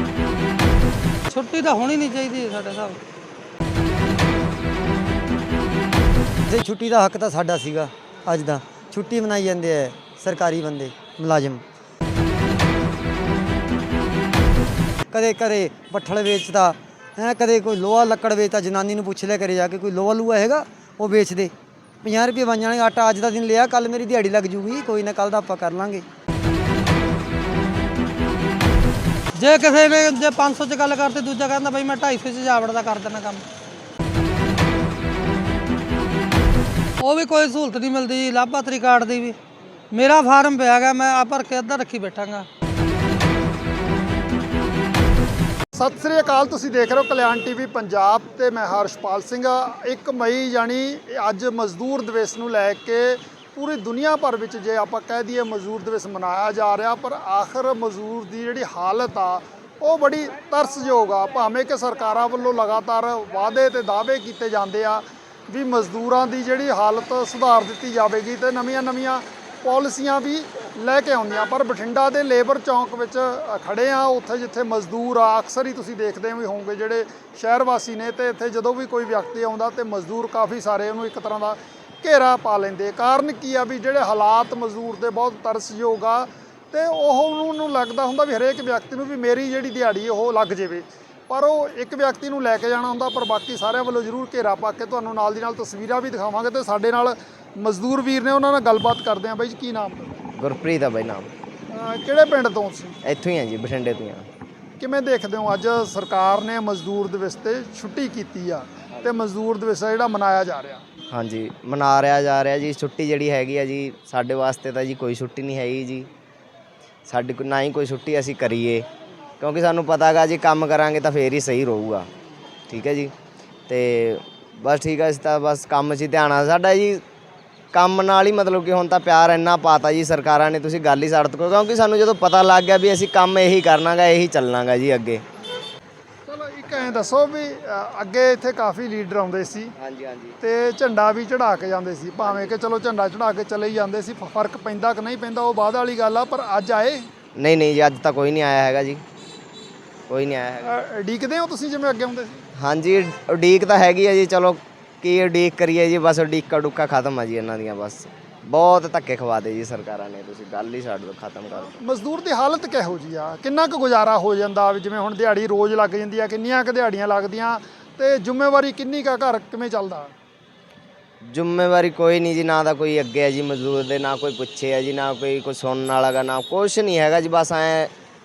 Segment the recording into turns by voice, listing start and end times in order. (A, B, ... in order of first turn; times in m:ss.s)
0:01.3-0:03.0 A
0:06.5-0:11.6 B
0:15.1-0:26.0 B
0:29.4-0:33.4 A
0:37.0-0:39.4 A
0:39.9-0:42.5 A
0:45.7-1:40.2 C
1:40.4-1:41.3 D
1:41.7-1:43.0 C
1:43.0-1:44.3 D
1:44.8-1:50.8 C
1:51.1-1:56.1 D
1:57.1-1:58.8 D
1:59.4-2:02.1 D
2:02.7-2:03.1 D
2:03.7-2:07.0 D
2:07.7-2:15.2 D
2:16.2-2:19.7 C
2:19.8-2:20.4 D
2:20.4-2:27.1 C
2:27.4-2:29.0 D
2:30.1-2:30.8 D
2:30.6-2:32.5 C
2:32.6-2:41.7 D
2:41.5-2:50.1 C
2:51.2-2:57.9 D